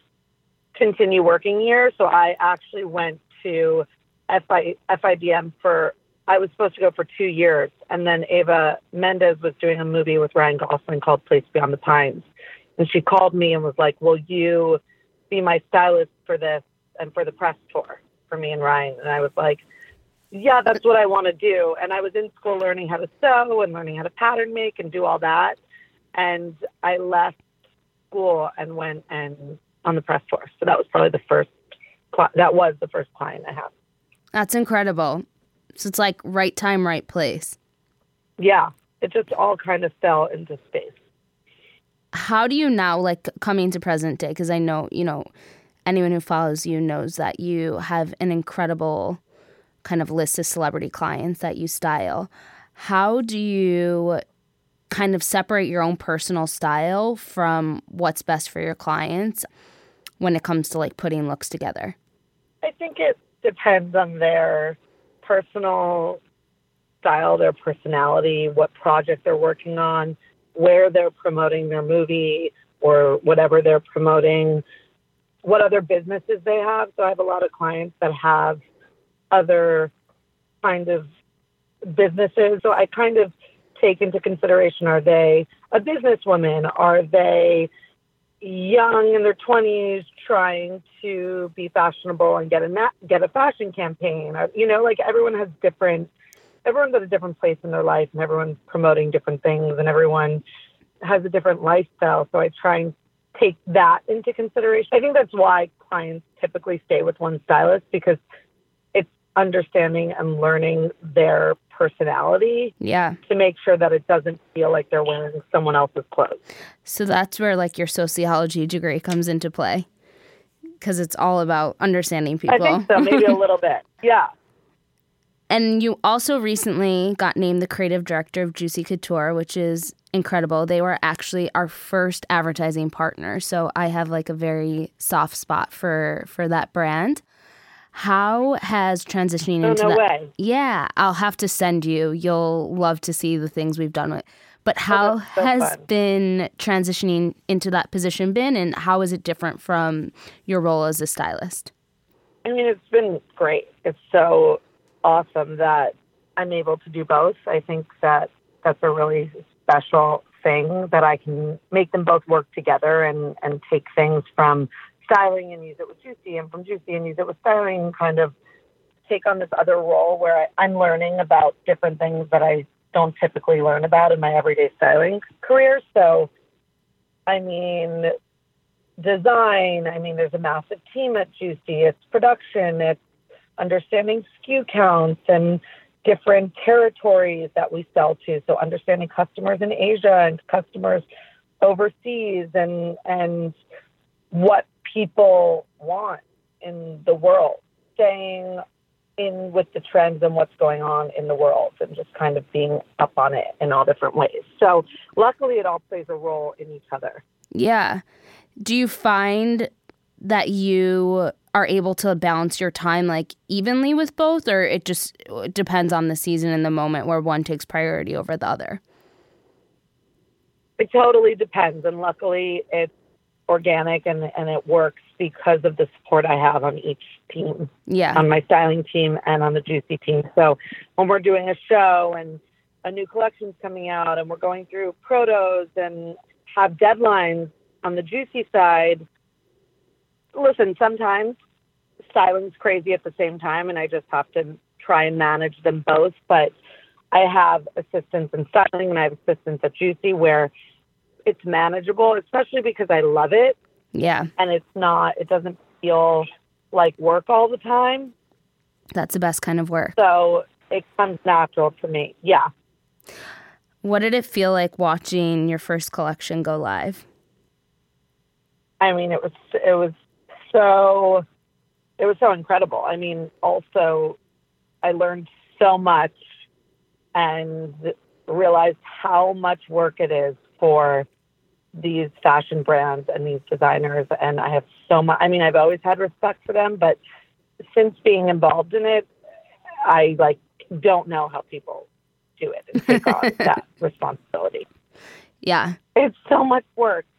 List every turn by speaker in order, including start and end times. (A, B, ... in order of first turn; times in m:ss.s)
0:00.7-0:19.6 A
0:20.3-0:25.6 A
0:26.1-0:27.4 A
0:28.1-0:31.6 A
0:32.1-0:33.7 A
0:34.3-0:35.2 B
0:35.8-0:37.6 B
0:38.4-0:41.0 A
0:42.1-0:45.3 B
0:45.8-0:49.2 B
0:49.8-0:54.2 B
0:54.9-0:59.4 B
1:00.2-1:01.9 B
1:02.6-1:06.2 A
1:07.0-1:14.6 A
1:15.4-1:18.6 A
1:19.3-1:19.9 A
1:20.6-1:21.0 A
1:21.8-1:27.7 A
1:28.4-1:36.1 A
1:36.6-1:40.4 A
1:41.0-1:48.2 A
1:48.9-1:52.7 A
1:52.8-1:53.2 B
1:53.3-1:56.4 A
1:56.8-1:59.8 B
2:00.8-2:03.4 B
2:02.5-2:04.3 A
2:05.5-2:17.2 B
2:17.9-2:31.7 B
2:19.6-2:20.3 A
2:24.9-2:25.8 A
2:32.4-2:48.3 A
2:49.1-2:56.3 A
2:57.3-2:58.1 A
2:59.0-3:03.0 A
3:03.6-3:11.0 A
3:11.6-3:13.6 A
3:14.3-3:18.6 A
3:19.2-3:27.2 A
3:27.5-3:28.0 B
3:28.6-3:29.7 B
3:30.2-3:38.8 B
3:40.8-3:42.9 A
3:43.5-3:59.0 A
3:47.9-3:48.2 B
4:00.3-4:01.4 A
4:02.1-4:06.5 A
4:07.1-4:10.5 A
4:11.2-4:13.6 A
4:13.9-4:14.3 B
4:14.4-4:18.1 A
4:18.9-4:20.0 B
4:20.0-4:22.5 A
4:23.8-4:27.0 B
4:28.8-4:29.9 A
4:30.5-4:31.2 A
4:32.0-4:34.2 A
4:34.8-4:36.2 A
4:37.1-4:41.0 A
4:41.8-4:47.0 A
4:47.7-4:49.1 A
4:49.8-4:54.6 A
4:52.9-4:53.2 B
4:55.4-4:55.8 B
4:56.0-4:57.1 A